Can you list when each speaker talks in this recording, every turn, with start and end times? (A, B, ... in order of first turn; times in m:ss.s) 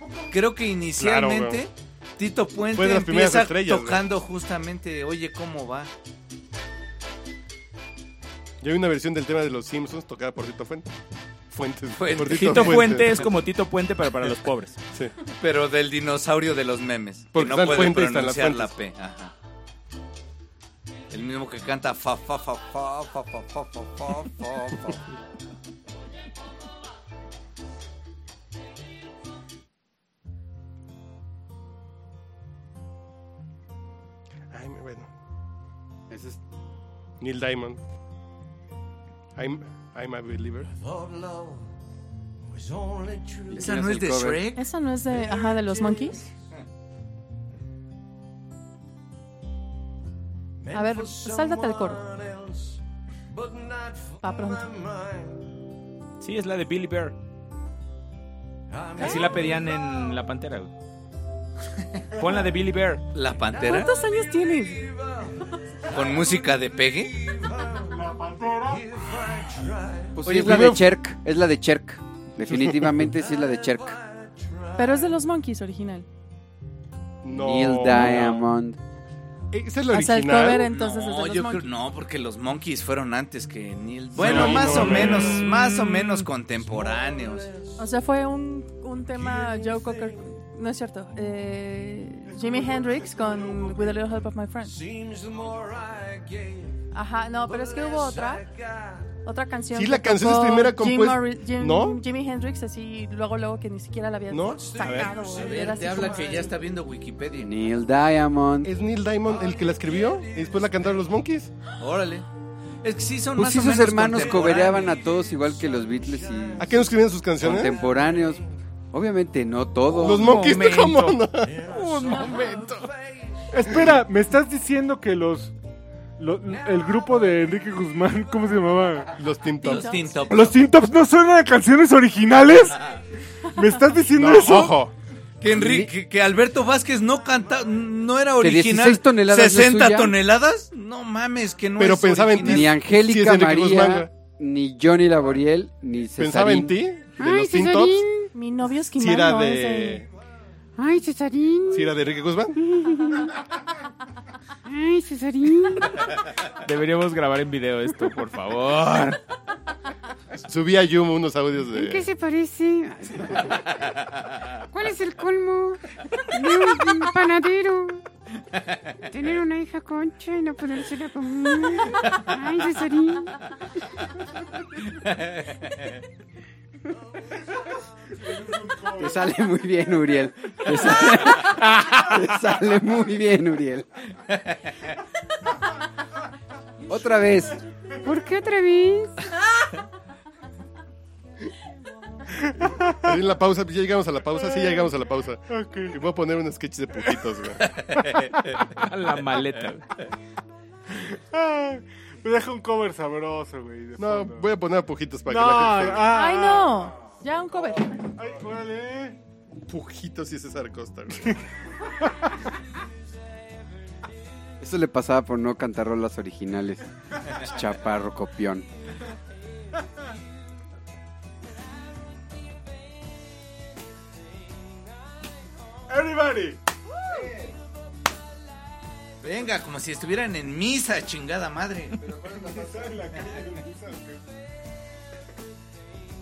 0:00.3-0:05.9 A
0:01.0-0:01.6 B
0:02.7-0:04.0 B
0:08.6-0:10.9 B
0:11.5-0:13.3 B
0:12.0-0:13.2 A
0:12.2-0:14.8 C
0:15.4-0:19.3 A
0:17.3-0:18.7 B
0:21.1-0:25.0 A
0:34.5-0:35.1 B
0:36.1-0:36.4 D
0:37.2-0:37.8 B
0:39.4-0:40.7 B
0:43.5-0:44.4 D
0:43.5-0:44.6 A
0:44.6-0:46.3 E
0:50.7-0:52.1 E
0:54.2-0:54.8 E
0:56.2-0:57.2 C
0:59.0-0:59.2 E
0:59.0-1:00.7 C
1:02.1-1:03.0 C
1:03.1-1:03.9 A
1:03.6-1:04.9 E
1:05.9-1:07.2 A
1:07.9-1:08.9 F
1:10.2-1:14.0 D
1:10.3-1:10.8 A
1:12.5-1:12.9 B
1:14.8-1:16.0 E
1:17.2-1:18.4 B
1:17.3-1:18.8 D
1:19.5-1:20.7 B
1:19.9-1:21.7 E
1:20.7-1:27.5 A
1:24.1-1:25.4 B
1:24.2-1:25.2 F
1:27.8-1:34.8 E
1:36.9-1:38.5 E
1:39.2-1:46.5 E
1:39.7-1:42.0 B
1:44.3-1:44.7 B
1:44.8-1:45.1 C
1:45.3-1:47.5 A
1:47.4-1:48.7 D
1:48.6-1:51.5 B
1:51.8-1:52.2 A
1:52.8-1:54.9 A
1:53.4-1:56.8 D
1:56.6-1:57.7 B
1:57.4-2:00.4 D
1:59.9-2:02.9 B
2:00.1-2:01.2 C
2:02.1-2:02.5 E
2:03.5-2:05.5 F
2:06.2-2:09.1 F
2:09.2-2:10.2 B
2:09.6-2:10.6 A
2:09.6-2:10.0 E
2:10.3-2:12.8 F
2:13.5-2:14.8 F
2:14.1-2:14.9 B
2:15.4-2:22.7 A
2:15.4-2:15.9 D
2:18.4-2:20.2 D
2:21.8-2:24.1 B
2:22.4-2:26.8 D
2:26.2-2:28.0 B
2:27.2-2:28.3 G
2:28.3-2:30.0 E
2:28.9-2:30.0 B
2:30.8-2:31.9 G
2:31.7-2:32.6 B
2:32.6-2:33.3 G
2:34.7-2:36.0 G
2:36.6-2:39.2 C
2:40.4-2:42.1 B
2:41.7-2:43.4 G
2:44.7-2:48.0 G
2:49.1-2:53.4 G
2:55.0-2:55.7 A
2:58.2-2:59.2 F
2:58.9-3:03.9 D
3:06.9-3:07.6 D
3:08.0-3:09.1 G
3:12.4-3:13.0 F
3:13.0-3:17.7 B
3:15.5-3:15.9 F
3:17.8-3:18.6 A
3:18.8-3:19.8 C
3:20.9-3:24.5 F
3:24.0-3:26.1 B
3:25.2-3:26.9 F
3:26.1-3:28.0 E
3:27.5-3:29.2 F
3:29.7-3:31.4 B
3:34.6-3:38.7 D
3:45.9-3:46.6 F
3:49.2-3:52.0 A
3:52.1-3:54.2 F